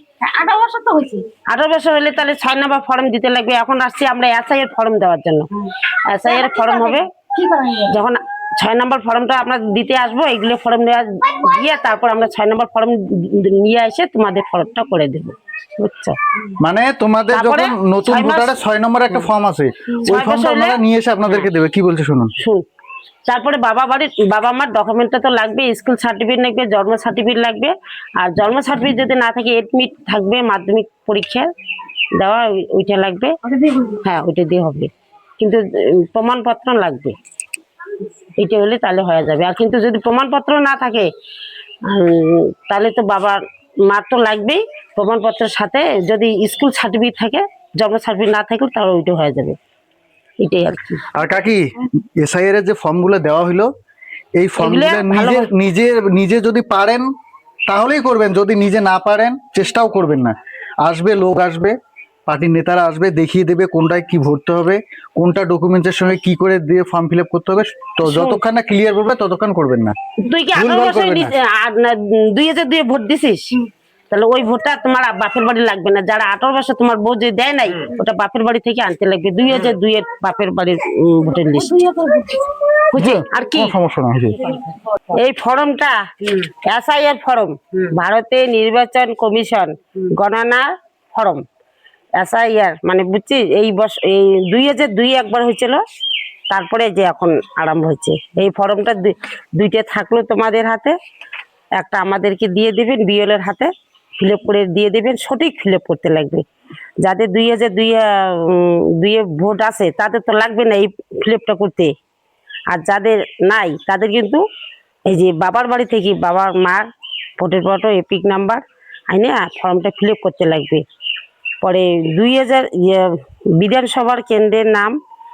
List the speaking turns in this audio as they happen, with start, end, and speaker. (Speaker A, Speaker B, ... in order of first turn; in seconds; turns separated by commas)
Speaker A: 0.2-1.2, Speaker B: 1.5-5.5, Speaker B: 6.0-7.1, Speaker A: 6.3-7.9, Speaker B: 7.8-16.2, Speaker C: 16.6-22.3, Speaker B: 17.3-18.6, Speaker B: 19.9-21.5, Speaker B: 22.4-22.6, Speaker B: 23.2-31.5, Speaker B: 32.2-37.2, Speaker B: 38.4-41.1, Speaker B: 41.8-49.6, Speaker B: 50.4-51.0, Speaker C: 51.1-53.7, Speaker C: 54.4-57.1, Speaker B: 54.6-55.5, Speaker C: 57.7-61.7, Speaker C: 62.3-70.0, Speaker B: 68.0-68.4, Speaker B: 70.2-73.6, Speaker C: 70.5-71.3, Speaker B: 74.1-81.8, Speaker A: 81.4-82.5, Speaker B: 82.9-83.7, Speaker C: 82.9-84.5, Speaker B: 85.1-91.4, Speaker B: 92.2-95.8, Speaker B: 96.5-100.9, Speaker B: 101.8-106.5, Speaker B: 107.0-111.9, Speaker B: 112.7-114.4, Speaker B: 115.0-116.8, Speaker B: 117.4-120.8, Speaker B: 121.6-124.9